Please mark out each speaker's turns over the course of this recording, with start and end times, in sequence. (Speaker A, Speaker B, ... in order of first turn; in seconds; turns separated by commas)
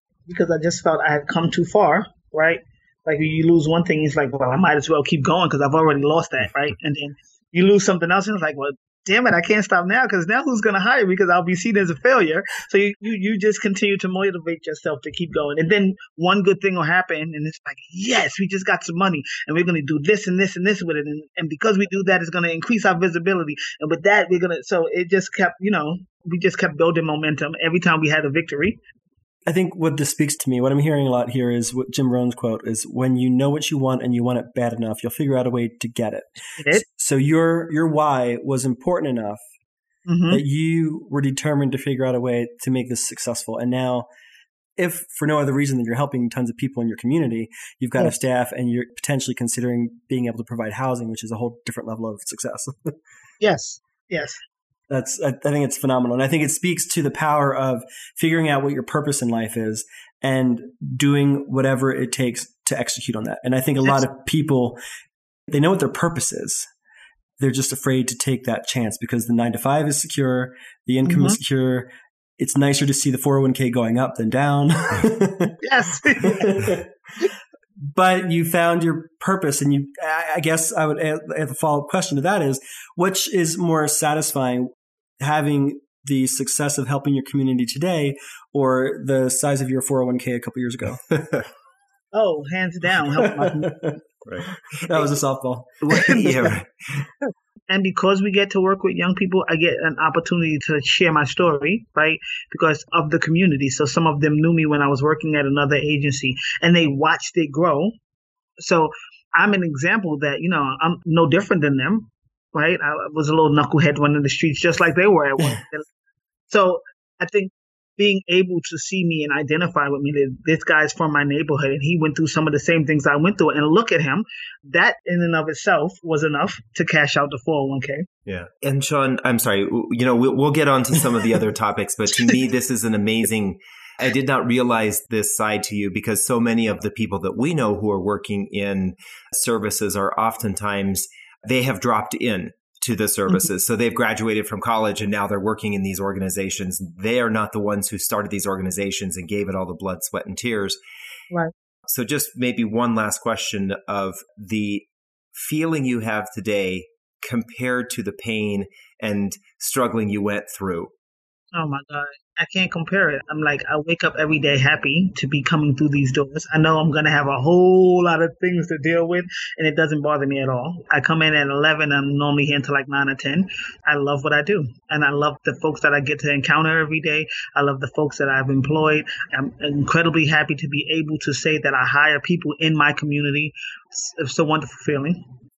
Speaker A: 0.3-28.8, Speaker B: 29.4-39.4, Speaker A: 36.6-36.8, Speaker A: 40.1-40.4, Speaker B: 40.3-44.1, Speaker B: 44.8-53.0, Speaker A: 53.4-54.4, Speaker B: 54.9-64.8, Speaker B: 65.5-66.7, Speaker B: 67.4-75.6, Speaker A: 71.0-71.4, Speaker A: 75.6-76.6, Speaker B: 76.2-76.9, Speaker B: 77.8-91.0, Speaker A: 92.1-93.8, Speaker B: 93.0-93.9, Speaker C: 94.2-95.0, Speaker B: 94.8-96.5, Speaker C: 95.9-96.7, Speaker A: 97.7-107.9, Speaker A: 108.6-115.9, Speaker A: 116.5-128.1, Speaker C: 128.2-150.8, Speaker C: 151.9-160.9, Speaker A: 161.5-185.2